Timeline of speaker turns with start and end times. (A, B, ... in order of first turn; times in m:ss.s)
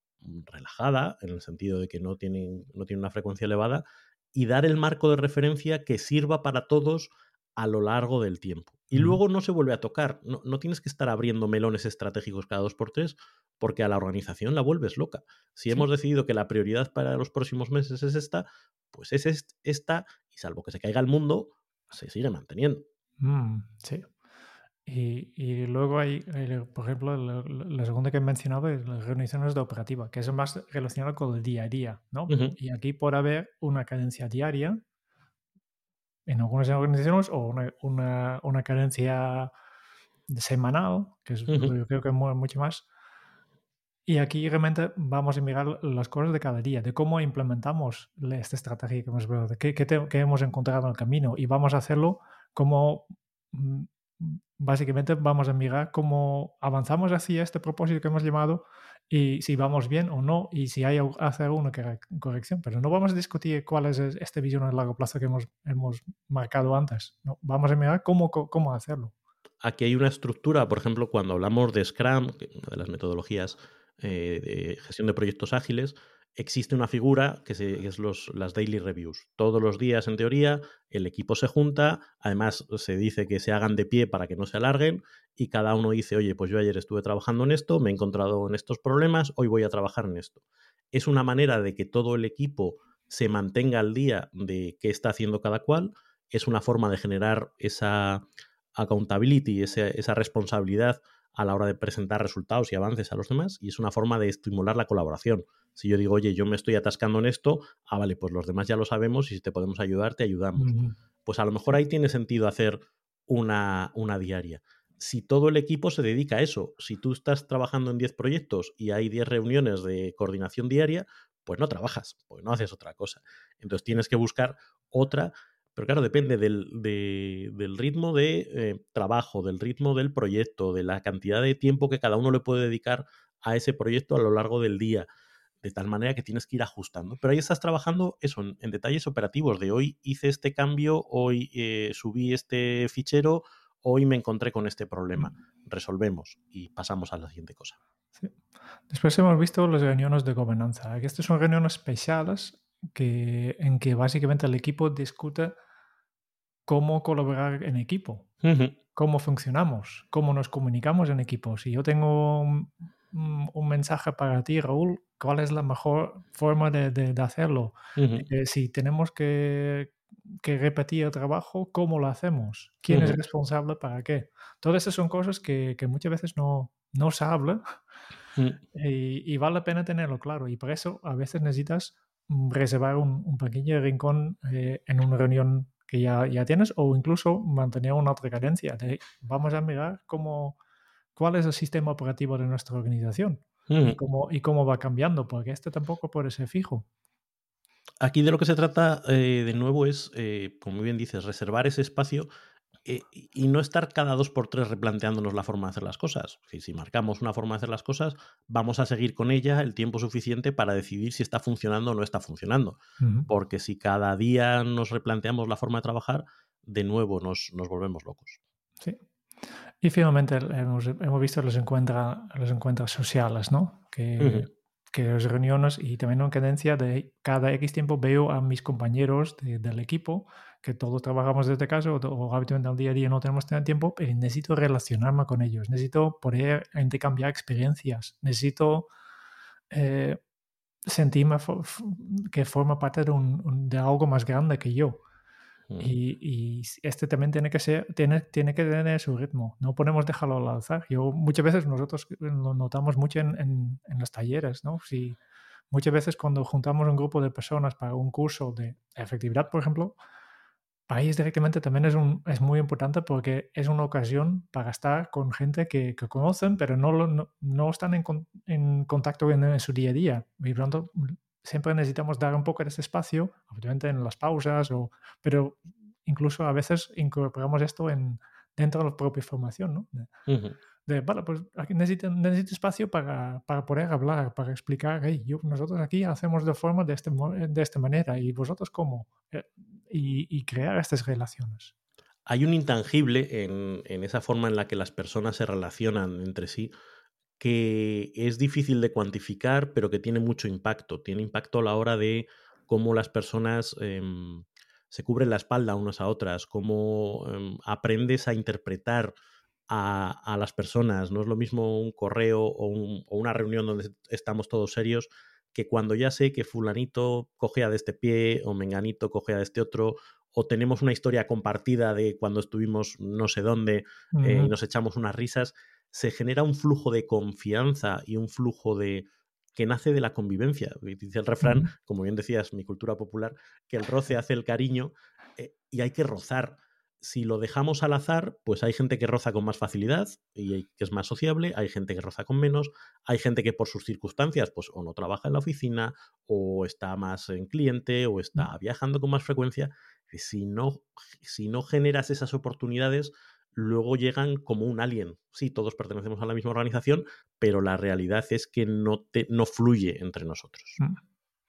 0:00.2-0:22.8 A
0:08.9-0:09.2 B
0:23.2-0:24.1 B
0:24.9-0:34.8 B
0:32.3-0:32.6 A
0:36.3-0:39.5 B
0:40.3-0:42.9 B
0:41.5-0:41.7 A
0:44.1-1:09.1 B
1:09.6-1:30.4 A
1:30.9-1:38.2 A
1:38.8-1:50.8 A
1:50.6-1:51.0 B
1:51.3-2:15.1 A
2:15.6-2:27.8 A
2:28.9-2:35.6 B
2:36.7-2:38.3 B
2:38.4-2:38.8 A
2:39.0-2:57.7 B
2:48.0-2:48.2 A
2:52.9-2:53.2 A
2:58.7-3:10.6 B
3:11.2-3:16.9 B
3:13.7-3:14.0 A
3:18.0-3:22.3 A
3:22.8-3:38.4 A
3:33.0-3:33.3 B
3:39.8-3:58.9 B
3:44.2-3:44.5 A
3:59.7-4:00.2 B
4:00.9-4:05.0 B
4:05.8-4:15.2 B
4:15.7-4:20.0 B
4:20.9-4:40.1 B
4:40.3-4:40.6 A
4:40.9-4:51.7 B
4:52.3-4:56.7 A
4:57.4-5:09.1 A
5:09.7-6:00.8 A
5:24.2-5:24.5 B
5:31.4-5:31.7 B